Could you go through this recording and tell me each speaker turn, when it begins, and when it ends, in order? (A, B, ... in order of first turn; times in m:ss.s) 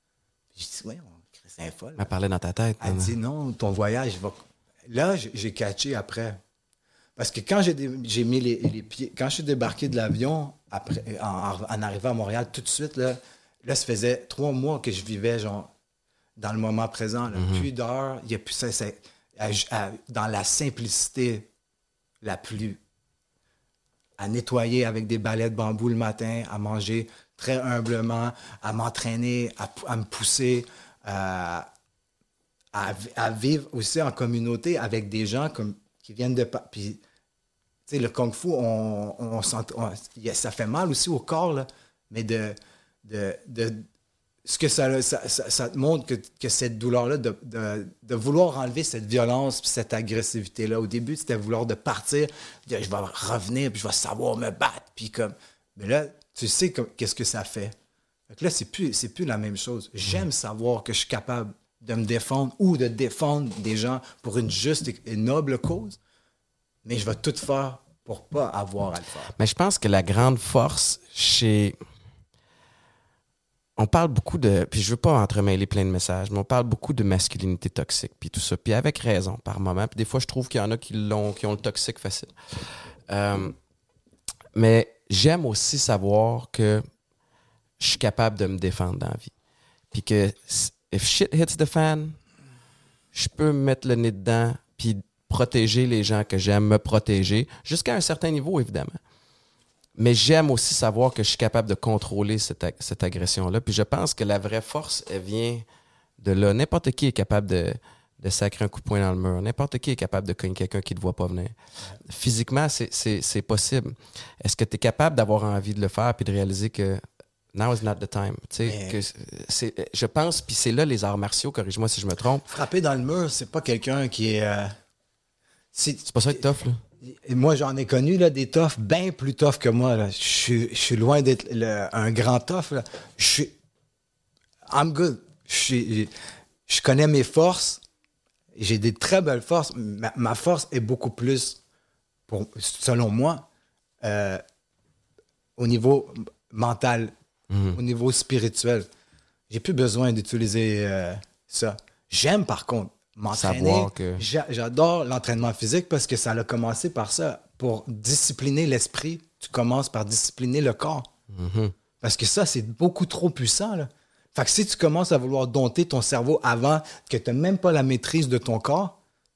0:00.6-0:02.1 A
0:02.0-0:03.1 B
0:02.8-0:06.4 A
0:07.2-0:15.7 A
0:16.4-0:21.5 A
0:17.3-0:17.7 B
0:22.2-0:22.8 A
0:24.2-0:31.7 A
0:32.7-0:37.0 A
0:37.9-0:43.9 A
0:44.4-0:57.7 A
0:58.3-1:06.0 A
1:06.8-1:09.3 A
1:09.4-1:11.8 B
1:13.8-1:22.3 B
1:23.1-1:23.6 B
1:24.6-1:26.8 B
1:27.8-1:29.3 B
1:29.9-1:32.2 B
1:33.1-1:39.0 B
1:40.0-1:45.6 B
1:46.2-1:57.0 B
1:57.5-2:02.5 B
1:58.7-1:59.0 A
2:02.5-2:04.7 A
2:05.7-2:06.4 A
2:06.1-2:06.8 B
2:07.0-2:13.5 A
2:14.7-2:16.1 A
2:16.7-2:17.8 A
2:18.5-2:21.6 A
2:22.3-2:23.5 A
2:24.0-2:24.4 A
2:25.6-2:27.1 A
2:27.5-2:27.8 B
2:27.7-2:28.9 A
2:29.5-2:41.1 A
2:33.3-2:34.2 B
2:41.3-2:41.8 B
2:42.0-2:49.0 A